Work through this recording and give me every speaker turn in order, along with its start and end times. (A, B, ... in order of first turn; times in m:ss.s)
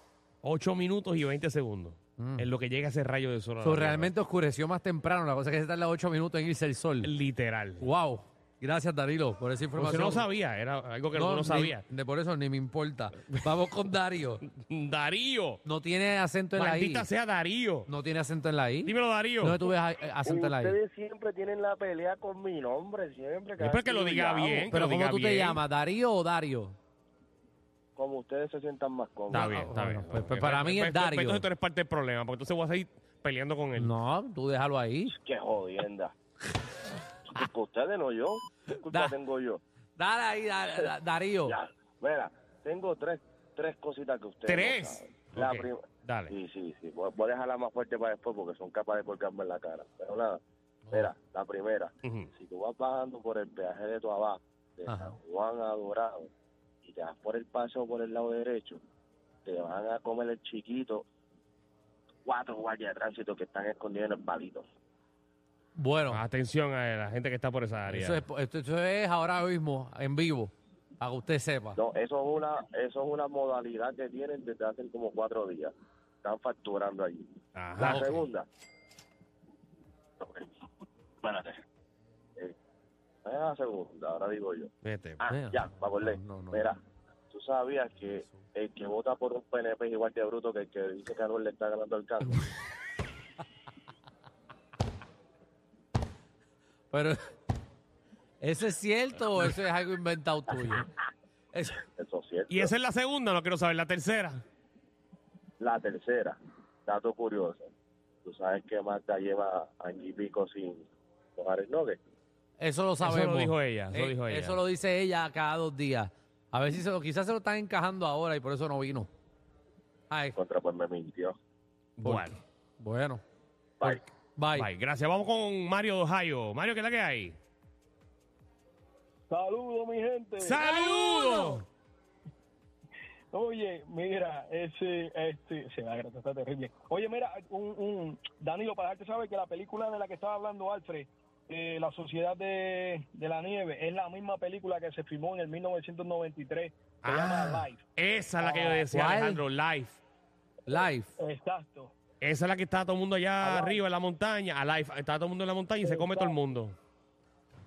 0:00.4-0:04.1 A
0:02.2-0:02.5 B
0:03.6-0:07.1 B
0:07.0-0:07.8 A
0:07.8-0:10.2 B
0:09.8-0:11.8 A
0:11.1-0:14.4 B
0:14.4-0:15.6 A
0:15.6-0:17.1 B
0:16.6-0:17.9 A
0:17.9-0:20.8 B
0:18.8-0:19.6 A
0:20.2-0:24.7 C
0:23.6-0:25.6 A
0:24.7-0:26.8 B
0:28.0-0:29.6 C
0:29.3-0:31.4 B
0:29.3-0:33.9 A
0:33.7-0:35.1 B
0:35.1-0:36.1 C
0:37.3-0:39.6 C
0:38.8-0:39.2 B
0:40.0-0:41.6 B
0:41.4-0:56.3 C
0:44.4-0:46.3 A
0:52.0-0:52.3 A
0:54.9-0:55.2 B
0:56.8-0:58.8 C
0:59.4-1:01.0 C
1:02.2-1:04.7 C
1:05.8-1:06.2 B
1:06.1-1:08.2 A
1:07.8-1:11.8 B
1:11.8-1:15.7 C
1:16.2-1:18.5 C
1:17.6-1:18.2 A
1:17.8-1:18.2 B
1:20.2-1:20.5 C
1:21.2-1:21.6 C
1:23.2-1:26.8 C
1:24.8-1:25.2 A
1:25.3-1:26.7 B
1:27.3-1:32.5 C
1:36.9-1:37.2 B
1:38.4-1:40.9 B
1:41.5-1:41.8 B
1:42.0-1:42.7 C
1:42.5-1:44.4 A
1:45.6-1:47.7 C
1:48.2-1:52.0 C
1:52.6-1:59.1 B
1:53.0-1:54.6 A
2:00.1-2:00.4 B
2:00.4-2:01.3 C
2:02.0-2:02.4 A
2:02.0-2:03.2 B
2:04.4-2:04.7 B
2:04.5-2:07.4 A
2:09.3-2:11.6 D
2:10.4-2:11.6 A
2:13.3-2:27.8 D
2:27.0-2:30.0 A
2:28.4-2:28.9 D
2:28.9-2:29.4 B
2:30.7-2:31.1 B
2:30.7-2:31.9 D
2:32.2-2:36.8 A
2:33.4-2:33.8 D
2:35.8-2:36.4 D